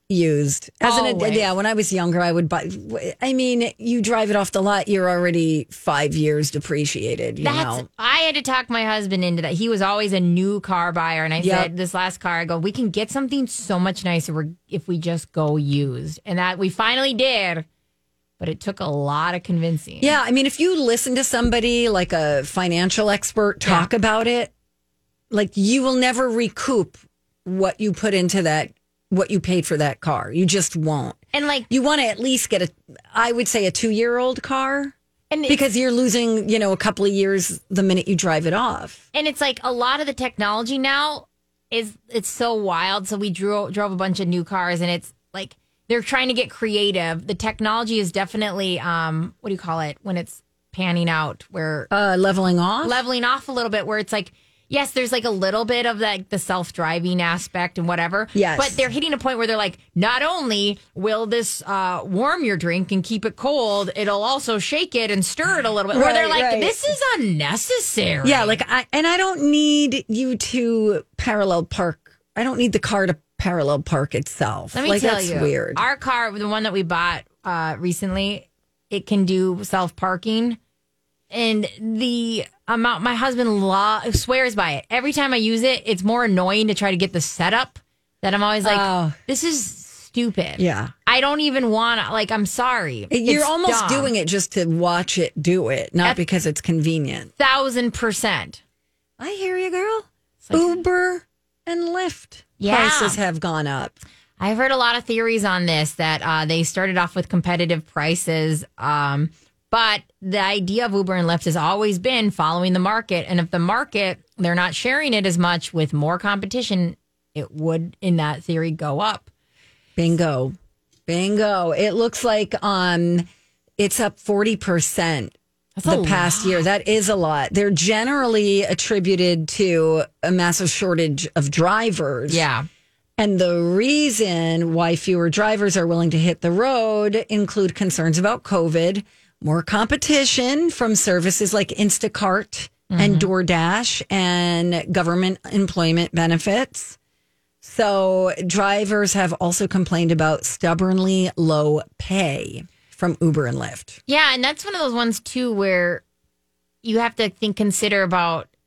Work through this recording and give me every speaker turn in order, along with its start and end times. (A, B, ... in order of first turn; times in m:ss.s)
0:00.1-0:07.9 A
0:00.8-0:01.5 B
0:07.4-0:17.7 B
0:11.4-0:11.7 A
0:18.4-0:20.1 B
0:20.0-0:24.5 A
0:25.3-0:34.9 A
0:31.3-0:31.7 B
0:35.3-0:35.6 B
0:35.5-0:39.0 A
0:39.1-0:51.9 B
0:51.9-0:53.0 A
0:52.8-1:08.6 B
0:58.3-0:58.8 A
1:05.9-1:06.8 A
1:08.2-1:15.8 A
1:14.7-1:20.6 B
1:21.3-1:34.1 B
1:28.6-1:29.2 A
1:30.6-1:30.9 A
1:33.1-1:37.3 A
1:37.4-1:38.6 B
1:39.2-1:44.0 A
1:40.4-1:40.8 B
1:42.6-1:43.2 B
1:44.4-1:59.3 B
2:00.0-2:00.6 A
2:01.1-2:03.3 A
2:03.8-2:12.4 A
2:05.8-2:06.6 B
2:12.3-2:12.7 B
2:13.2-2:27.0 A
2:22.9-2:23.3 B
2:27.6-2:34.0 A
2:34.1-2:36.0 B
2:36.8-2:38.5 B